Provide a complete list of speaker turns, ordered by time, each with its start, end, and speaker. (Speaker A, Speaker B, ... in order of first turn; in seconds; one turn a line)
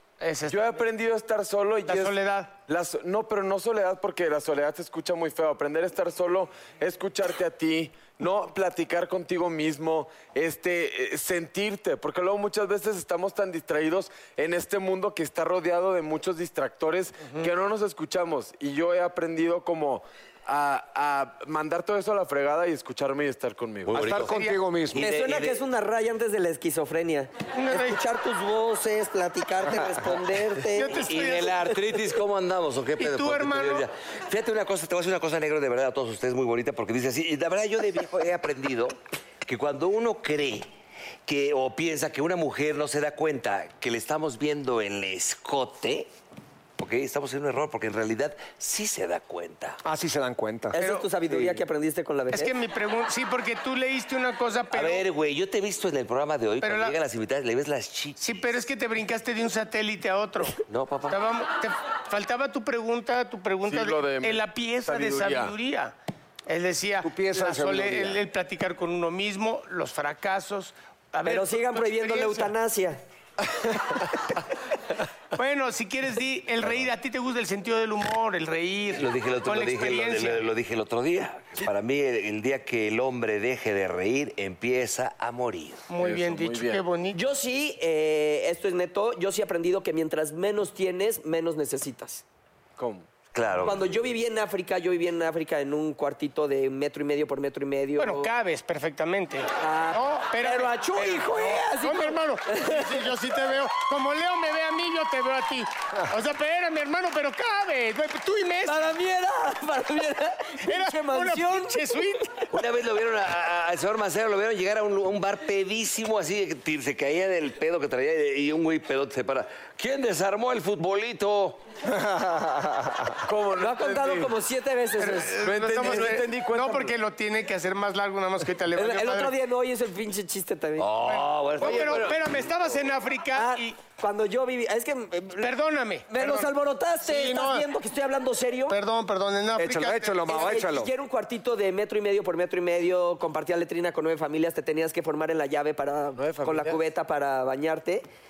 Speaker A: 0.2-0.8
Speaker B: 0.5-24.3
Speaker A: 1.8-2.5
Speaker C: 23.9-24.3
Speaker D: 23.9-25.1
Speaker A: 24.3-24.6
Speaker C: 24.9-25.6
Speaker E: 25.0-31.0
Speaker A: 27.5-28.0
Speaker A: 30.7-31.8
Speaker C: 31.0-40.7
Speaker A: 33.0-33.9
Speaker C: 41.3-46.1
Speaker C: 46.8-49.8
Speaker D: 49.8-50.8
Speaker E: 50.7-52.5
Speaker A: 50.8-51.1
Speaker A: 52.3-55.0
Speaker C: 54.7-58.6
Speaker A: 56.6-57.0
Speaker A: 58.2-65.9
Speaker C: 60.7-61.2
Speaker B: 63.6-65.5
Speaker A: 66.5-72.5
Speaker D: 67.0-68.2
Speaker E: 71.2-73.0
Speaker A: 75.3-80.4
Speaker C: 78.9-85.9
Speaker A: 85.9-87.2
Speaker B: 86.0-86.8
Speaker E: 87.1-92.2
Speaker B: 92.8-93.1
Speaker C: 93.3-93.8
Speaker E: 93.6-98.3
Speaker A: 98.0-108.8
Speaker E: 99.6-103.1
Speaker E: 108.7-111.9
Speaker A: 110.6-112.5
Speaker C: 112.5-121.6
Speaker D: 121.8-123.2
Speaker B: 123.2-124.3
Speaker E: 123.6-125.3
Speaker A: 125.0-129.3
Speaker B: 125.4-126.9
Speaker E: 128.7-130.9
Speaker C: 130.8-132.3
Speaker A: 131.0-133.8
Speaker B: 131.6-132.2
Speaker E: 133.3-135.5
Speaker A: 135.4-137.7
Speaker E: 136.1-138.8
Speaker A: 138.7-140.3
Speaker D: 139.6-140.9
Speaker E: 140.2-148.0
Speaker B: 146.2-146.8